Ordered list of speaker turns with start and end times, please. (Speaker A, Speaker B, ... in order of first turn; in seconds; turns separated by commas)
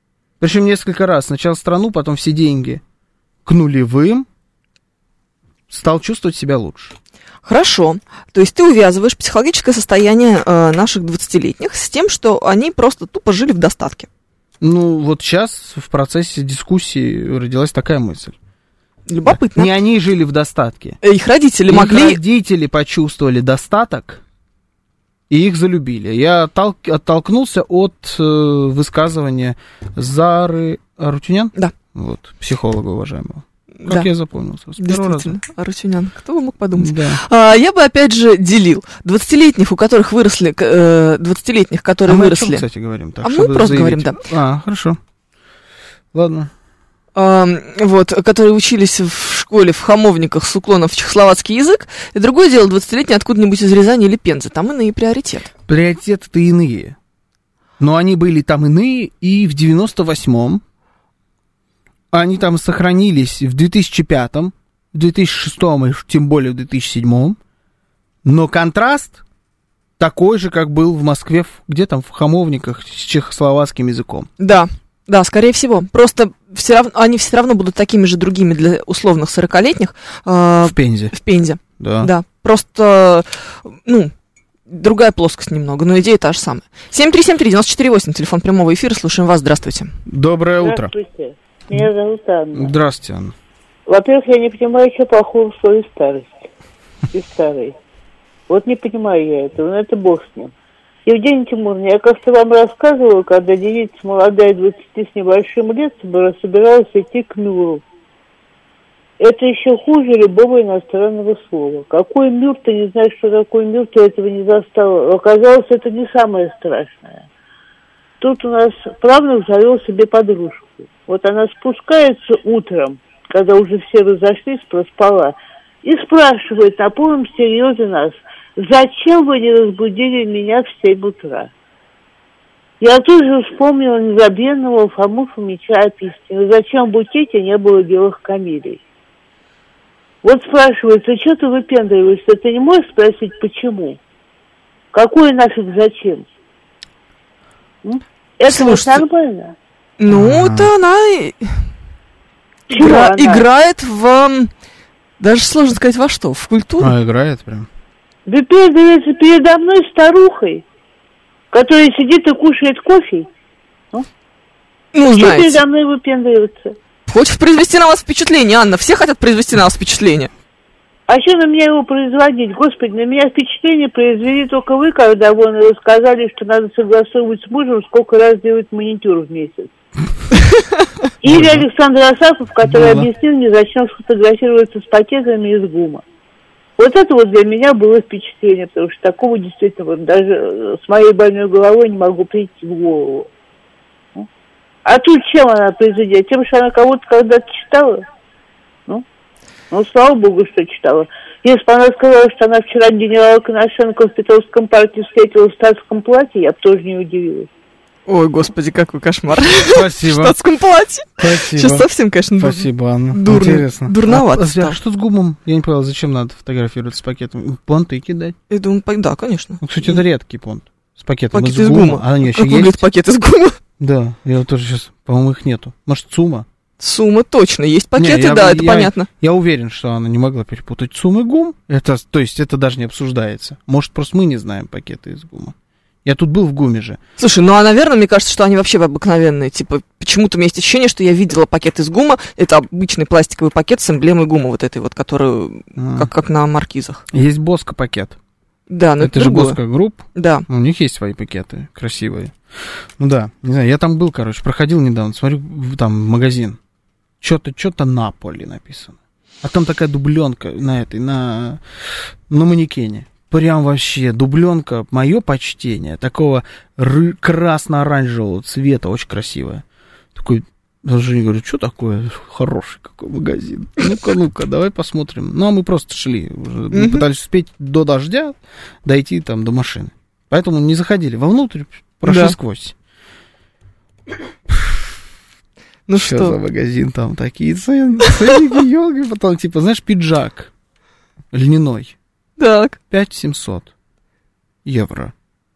Speaker A: 0.4-2.8, Speaker A: 3.5-4.3, Speaker A: 5.7-6.9, Speaker B: 7.4-14.1, Speaker A: 14.6-18.4, Speaker B: 19.1-19.7, Speaker A: 19.2-21.0, Speaker B: 21.0-22.2, Speaker A: 21.7-24.2, Speaker A: 25.3-35.3, Speaker B: 33.8-34.1, Speaker B: 34.8-42.6, Speaker A: 36.8-37.2, Speaker A: 42.1-45.0, Speaker B: 43.2-44.2, Speaker A: 46.1-46.5, Speaker B: 47.1-55.5, Speaker A: 55.7-57.0, Speaker A: 57.8-60.6, Speaker A: 62.1-67.4, Speaker A: 68.2-69.2, Speaker A: 70.0-74.3, Speaker B: 74.4-84.1, Speaker A: 80.6-81.1, Speaker A: 81.8-82.1, Speaker B: 84.7-89.9, Speaker A: 90.0-90.9, Speaker C: 90.6-92.7, Speaker A: 92.5-93.3, Speaker C: 93.9-96.3, Speaker C: 97.1-97.7, Speaker C: 98.5-100.5, Speaker C: 101.0-107.8, Speaker C: 109.2-117.2, Speaker C: 118.2-131.5, Speaker C: 132.8-138.8, Speaker C: 140.2-144.0, Speaker C: 144.9-146.2, Speaker C: 147.8-149.5, Speaker B: 148.5-149.0, Speaker B: 150.0-151.6, Speaker A: 150.1-150.7, Speaker C: 152.7-153.4, Speaker B: 152.7-154.5, Speaker B: 155.2-156.9, Speaker A: 156.8-157.7, Speaker C: 158.2-160.6, Speaker C: 161.5-163.2, Speaker B: 164.9-165.6, Speaker C: 165.1-166.7, Speaker B: 167.1-170.3, Speaker C: 171.1-179.7, Speaker C: 181.2-186.0, Speaker A: 181.3-181.6, Speaker A: 182.6-183.1, Speaker C: 186.8-193.3, Speaker C: 194.8-198.0, Speaker C: 199.7-207.5, Speaker B: 208.1-214.8, Speaker A: 209.7-210.4, Speaker A: 211.2-218.3, Speaker B: 218.5-220.0, Speaker A: 219.6-222.8, Speaker B: 221.3-223.6, Speaker A: 223.8-226.4, Speaker B: 226.8-229.1, Speaker A: 227.9-237.0, Speaker B: 237.2-247.0, Speaker A: 245.8-246.1, Speaker A: 247.1-248.2, Speaker B: 248.7-249.6, Speaker A: 249.0-256.6, Speaker B: 250.1-250.4, Speaker A: 257.2-261.6, Speaker A: 262.3-269.6, Speaker A: 270.1-282.7, Speaker B: 276.7-277.1, Speaker B: 282.1-282.4, Speaker A: 284.5-284.8, Speaker B: 285.9-286.4, Speaker A: 285.9-290.5, Speaker A: 291.3-291.9, Speaker B: 292.4-292.8, Speaker A: 292.9-293.7, Speaker A: 294.6-295.1